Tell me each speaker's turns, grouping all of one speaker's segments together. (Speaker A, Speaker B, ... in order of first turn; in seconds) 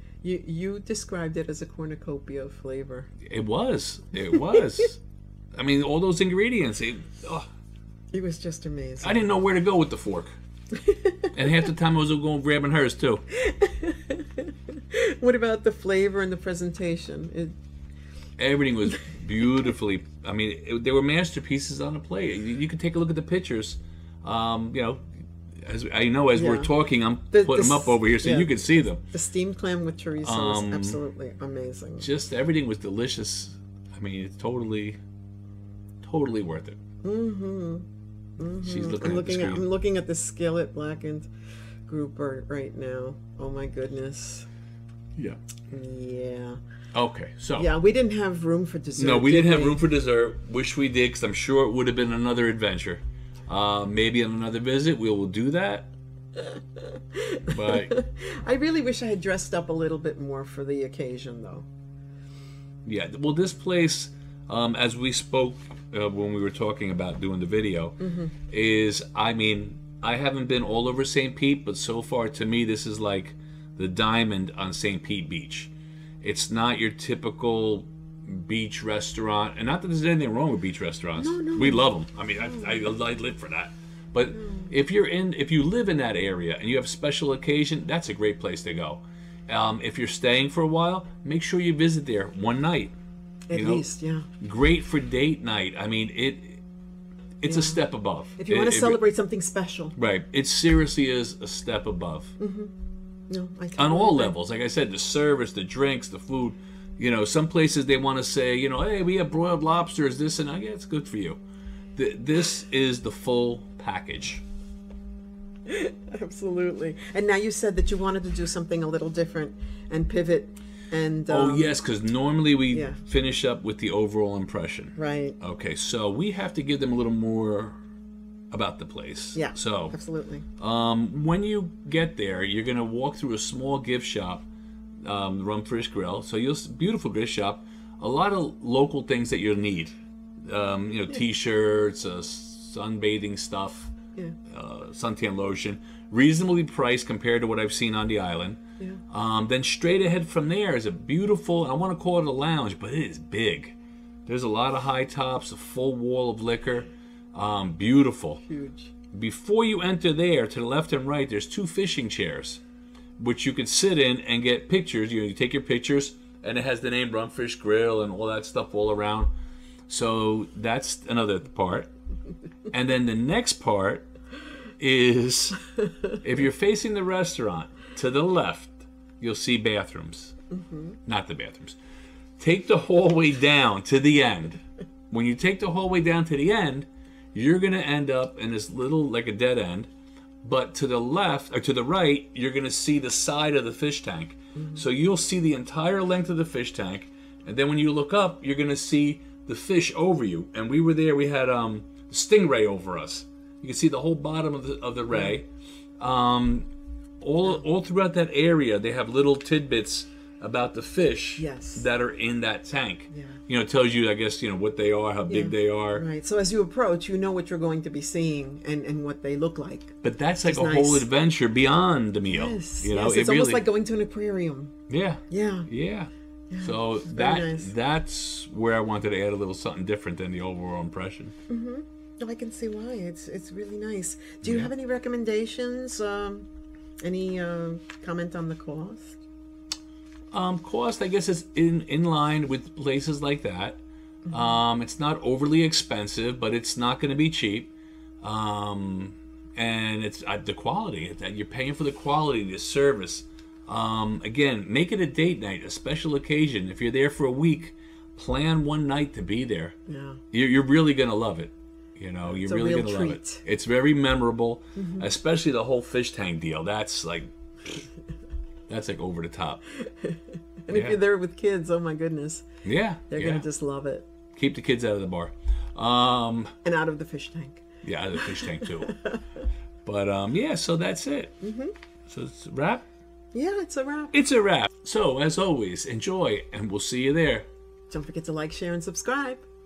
Speaker A: 0.2-3.1, 8.1-9.3, 10.8-11.3, 13.3-17.5, 26.3-26.7, 27.3-32.1, 37.0-37.9, 38.4-41.3, 41.9-44.5, 45.7-46.6, 47.5-49.8, 56.4-61.6, 68.0-68.3, 81.2-81.9, 84.3-84.7, 93.5-94.3, 97.4-97.8, 98.3-99.9, 102.4-102.7, 103.3-104.3, 115.7-121.8, 122.7-123.0, 125.0-125.4, 129.3-130.4, 158.4-158.9, 180.5-181.0, 211.4-211.8, 213.1-213.4, 215.3-221.1, 222.3-224.7, 225.3-225.7, 226.5-227.7, 231.5-236.5, 237.0-239.2, 259.9-260.2, 262.4-263.4, 264.8-265.1, 269.8-272.4, 273.1-274.1, 276.6-279.4, 281.4-281.7, 283.3-284.2, 287.9-289.4
Speaker B: 3.2-5.0, 5.5-7.5, 9.0-10.3, 11.3-13.2, 18.4-25.0, 25.6-29.0, 30.2-31.0, 32.0-35.0, 36.0-36.8, 38.6-39.6, 46.9-47.7, 49.0-55.9, 57.5-57.9, 62.9-68.0, 68.5-92.9, 93.5-93.8, 94.4-96.6, 97.4-99.0, 100.0-102.3, 103.8-111.4, 112.0-114.4, 121.3-127.8, 128.5-130.0, 130.6-134.4, 135.0-143.9, 144.5-148.6, 149.1-158.4, 159.1-162.6, 163.2-169.3, 169.9-171.9, 172.7-174.1, 174.8-175.6, 176.2-180.3, 181.1-181.8, 182.4-189.9, 190.4-205.5, 206.0-206.7, 207.2-216.0, 220.0-223.6, 224.9-231.3, 234.4-234.7, 240.3-259.7, 260.3-267.8, 268.7-269.6, 270.7-271.0, 272.6-273.4, 274.4-276.5, 277.8-279.0, 279.8-281.4, 282.1-282.8, 284.1-287.5